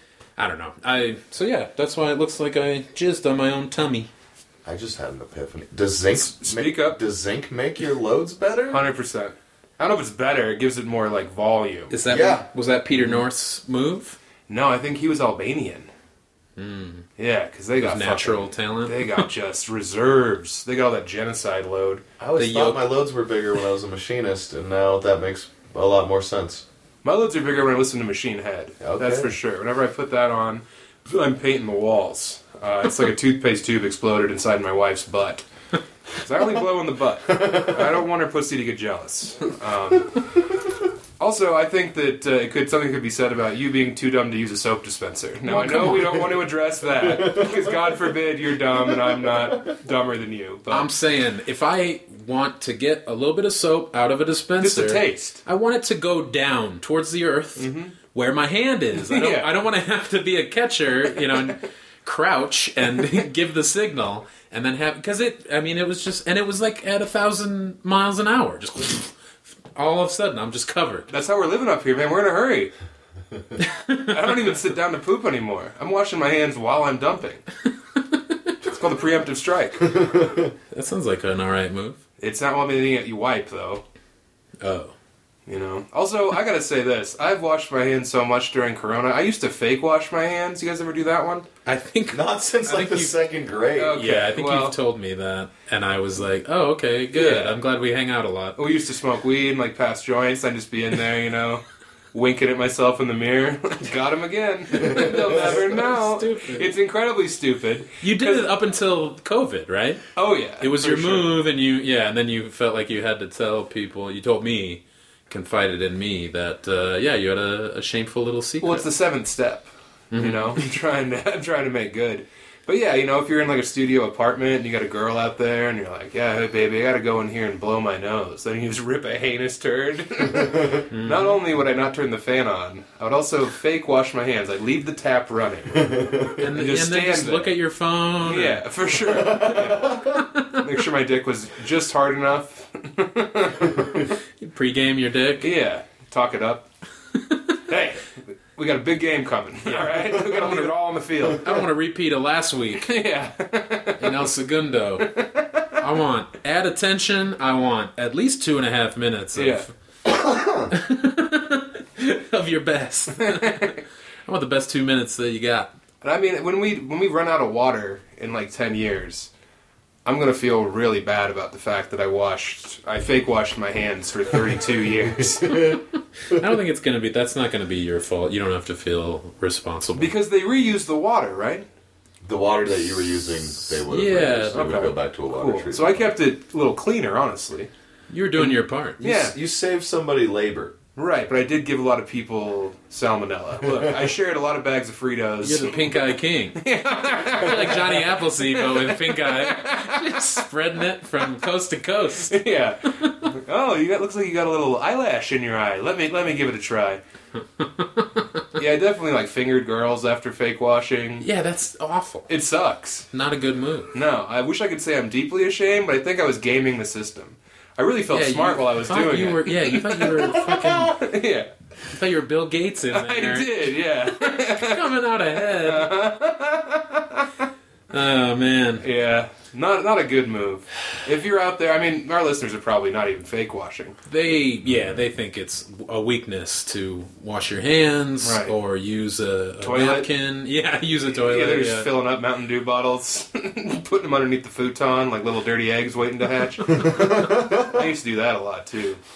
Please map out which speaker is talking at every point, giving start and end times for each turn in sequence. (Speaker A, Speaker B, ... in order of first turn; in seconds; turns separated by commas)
Speaker A: 0.4-4.1, Speaker B: 4.6-8.8, Speaker C: 6.1-7.0, Speaker C: 8.7-11.9, Speaker A: 11.9-14.2, Speaker B: 12.1-12.4, Speaker C: 14.5-15.9, Speaker A: 16.6-17.1, Speaker C: 17.2-22.0, Speaker A: 17.8-19.2, Speaker B: 22.2-26.6, Speaker A: 22.4-23.0, Speaker C: 27.0-35.5, Speaker B: 28.8-29.3, Speaker C: 36.2-40.2, Speaker B: 37.3-37.9, Speaker C: 41.2-50.9, Speaker A: 45.4-46.4, Speaker B: 47.0-47.8, Speaker B: 48.9-49.6, Speaker A: 50.7-69.1, Speaker C: 54.6-55.4, Speaker C: 57.5-57.9, Speaker C: 59.0-59.5, Speaker A: 69.8-71.1, Speaker C: 71.1-72.7, Speaker A: 73.6-74.4, Speaker C: 74.1-77.4, Speaker A: 78.0-78.5, Speaker C: 78.6-79.9, Speaker B: 79.9-80.5, Speaker A: 80.7-82.0, Speaker C: 82.2-83.8, Speaker A: 84.6-84.9, Speaker C: 85.5-91.5, Speaker A: 91.7-93.1, Speaker B: 92.1-94.0, Speaker C: 93.8-94.8, Speaker A: 93.9-98.6, Speaker C: 97.1-97.6, Speaker C: 98.6-108.5, Speaker A: 104.7-106.7, Speaker A: 108.0-118.8, Speaker C: 110.1-111.3, Speaker C: 118.6-137.5, Speaker A: 120.1-120.6, Speaker A: 130.9-131.4, Speaker B: 135.8-136.4, Speaker A: 136.3-138.6, Speaker C: 138.2-144.1, Speaker B: 139.1-140.2, Speaker A: 140.1-140.6, Speaker A: 144.4-145.5, Speaker C: 145.4-146.7, Speaker A: 147.1-147.6, Speaker C: 147.7-151.6, Speaker A: 149.7-150.7, Speaker A: 151.3-152.9, Speaker C: 152.8-154.2, Speaker A: 154.0-155.1, Speaker C: 155.0-155.8, Speaker A: 155.8-159.7, Speaker C: 159.3-159.6, Speaker B: 160.1-160.7, Speaker A: 160.7-165.7, Speaker C: 163.2-163.8, Speaker C: 166.0-169.3, Speaker C: 170.0-175.6, Speaker B: 175.2-176.5, Speaker A: 175.5-180.1, Speaker C: 179.9-181.7, Speaker B: 182.2-186.1, Speaker A: 183.3-184.9, Speaker C: 184.5-187.7, Speaker A: 188.1-189.0, Speaker C: 188.4-189.3, Speaker B: 189.0-190.8, Speaker C: 190.9-196.0, Speaker A: 195.4-196.6, Speaker C: 196.5-200.3, Speaker A: 197.3-203.3, Speaker C: 202.3-207.0, Speaker A: 207.6-208.2, Speaker C: 208.5-211.3, Speaker A: 211.2-212.3, Speaker C: 212.3-213.1, Speaker A: 213.1-213.9, Speaker C: 213.9-221.5, Speaker A: 218.1-221.0, Speaker A: 221.9-225.9, Speaker C: 222.9-227.3, Speaker A: 227.9-228.8, Speaker C: 228.8-233.9, Speaker A: 234.1-241.9, Speaker C: 238.2-238.5, Speaker C: 239.6-240.1, Speaker C: 241.1-249.0, Speaker B: 246.7-247.8